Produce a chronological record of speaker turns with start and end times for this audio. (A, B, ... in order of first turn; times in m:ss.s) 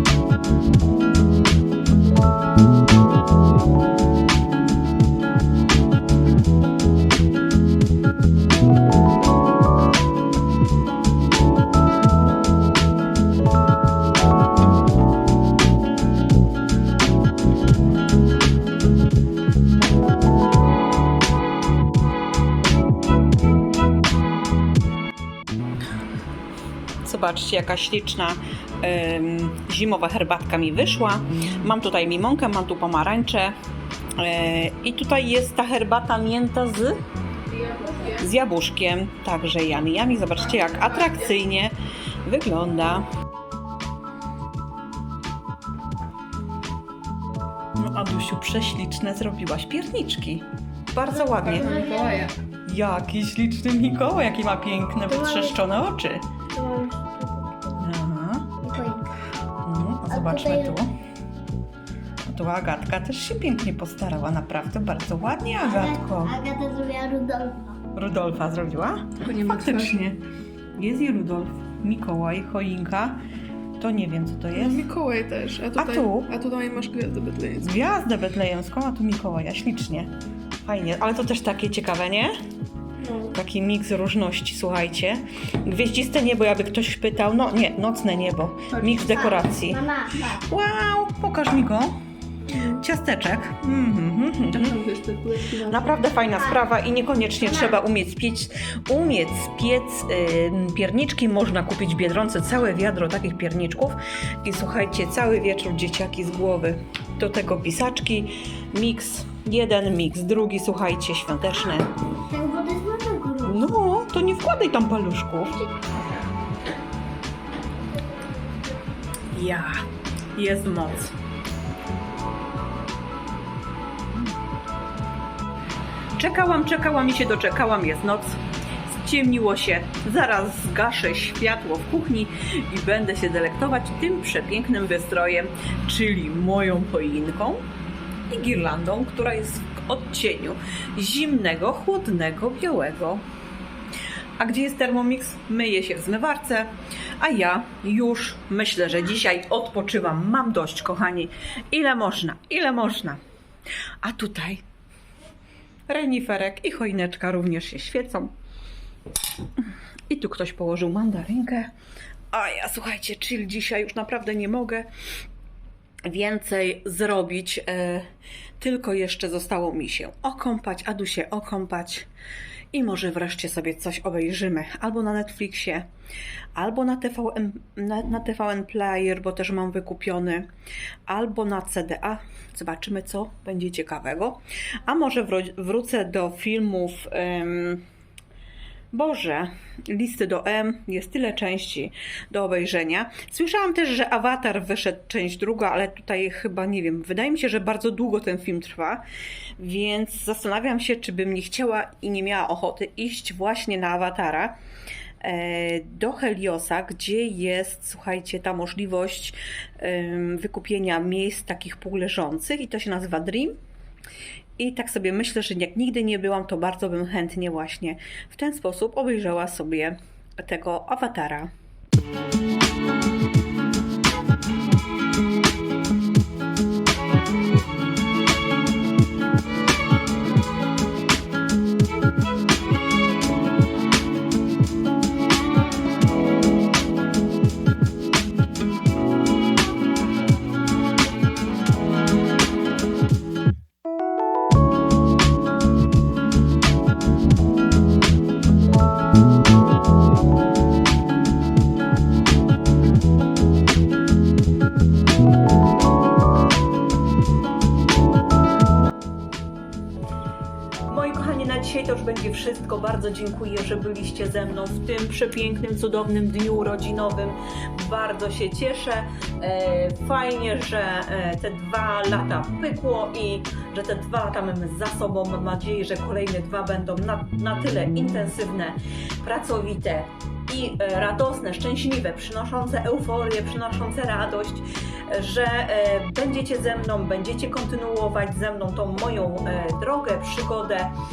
0:27.0-0:33.5 A
0:34.2-0:36.9 A
0:37.5-0:38.3 B
0:38.2-0:43.0 A
0:40.4-0:41.4 B
0:47.7-0:51.7 A
0:51.1-0:52.3 C
0:51.5-0:52.3 B
0:52.6-0:56.3 A
0:55.1-0:55.6 C
0:56.5-0:57.8 C
0:57.8-0:58.5 A
0:58.6-0:59.2 C
0:59.6-1:00.9 A
1:00.1-1:00.8 C
1:02.2-1:06.4 A
1:05.6-1:07.8 C
1:07.9-1:10.2 A
1:09.3-1:10.0 B
1:10.8-1:13.2 A
1:13.8-1:14.9 A
1:14.5-1:17.8 B
1:15.8-1:16.3 A
1:17.6-1:20.1 A
1:20.6-1:22.3 A
1:23.0-1:23.3 C
1:23.3-1:29.8 A
1:28.7-1:30.4 C
1:30.3-1:31.9 A
1:32.5-1:32.8 C
1:32.7-1:34.8 A
1:34.5-1:35.9 B
1:35.6-1:51.9 A
1:36.4-1:36.7 C
1:37.4-1:37.8 C
1:52.1-1:53.7 C
1:53.4-1:55.6 A
1:59.3-1:59.8 A
2:00.3-2:01.1 A
2:06.2-2:17.6 A
2:18.3-2:23.2 A
2:24.4-2:33.2 A
2:34.0-2:34.6 A
2:35.9-2:38.3 A
2:39.6-2:41.7 A
2:42.3-2:44.9 A
2:46.1-2:48.0 A
2:48.6-2:52.1 A
2:52.7-2:55.8 A
2:56.5-3:00.5 A
3:01.1-3:07.8 A
3:08.9-3:19.0 A
3:19.6-3:24.5 A
3:25.2-3:33.5 A
3:34.6-3:41.5 A
4:20.9-4:50.9 A